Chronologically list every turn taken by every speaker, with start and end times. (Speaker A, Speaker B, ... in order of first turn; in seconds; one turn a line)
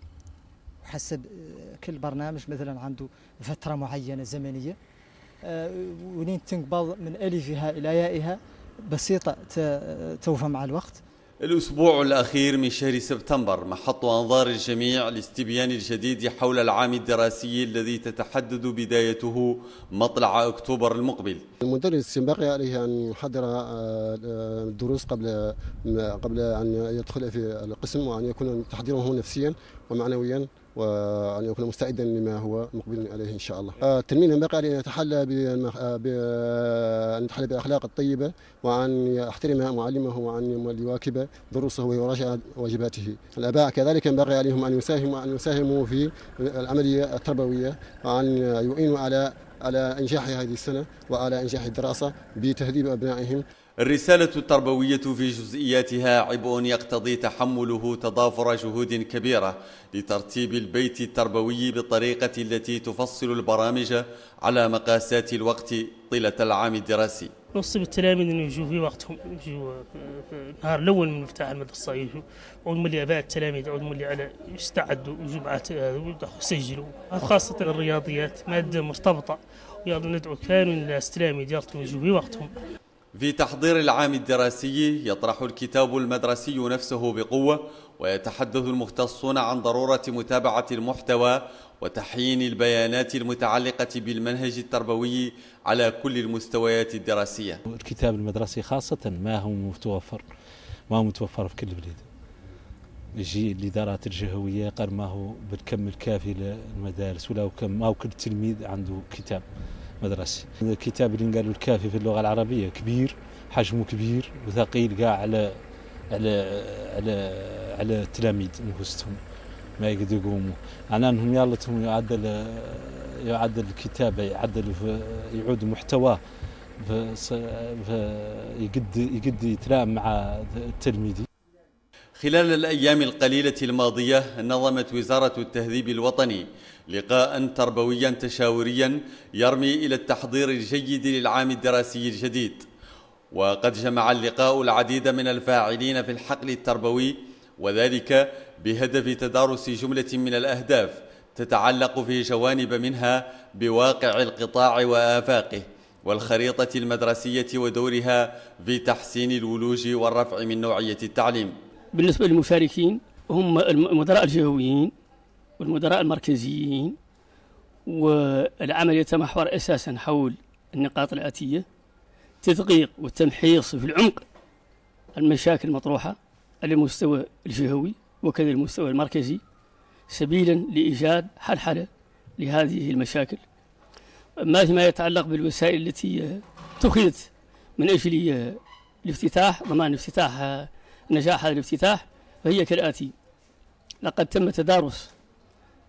Speaker A: 0.8-4.8
Speaker A: 5.4-11.0
Speaker B: 11.4-21.4
Speaker C: 21.6-53.4
Speaker B: 53.9-67.3
Speaker D: 67.5-82.5
Speaker B: 83.2-97.6
Speaker E: 97.7-100.2
Speaker E: 100.9-102.1
Speaker E: 103.2-109.5
Speaker E: 110.0-115.6
Speaker E: 116.1-119.2
Speaker E: 119.8-126.2
Speaker E: 126.8-131.3
Speaker B: 132.2-142.7
Speaker B: 143.3-161.5
Speaker F: 161.9-164.9
Speaker F: 165.6-167.0
Speaker F: 167.9-171.7
Speaker F: 172.4-174.2
Speaker F: 175.2-179.4
Speaker F: 180.1-183.4
Speaker F: 184.4-193.1
Speaker F: 194.0-195.1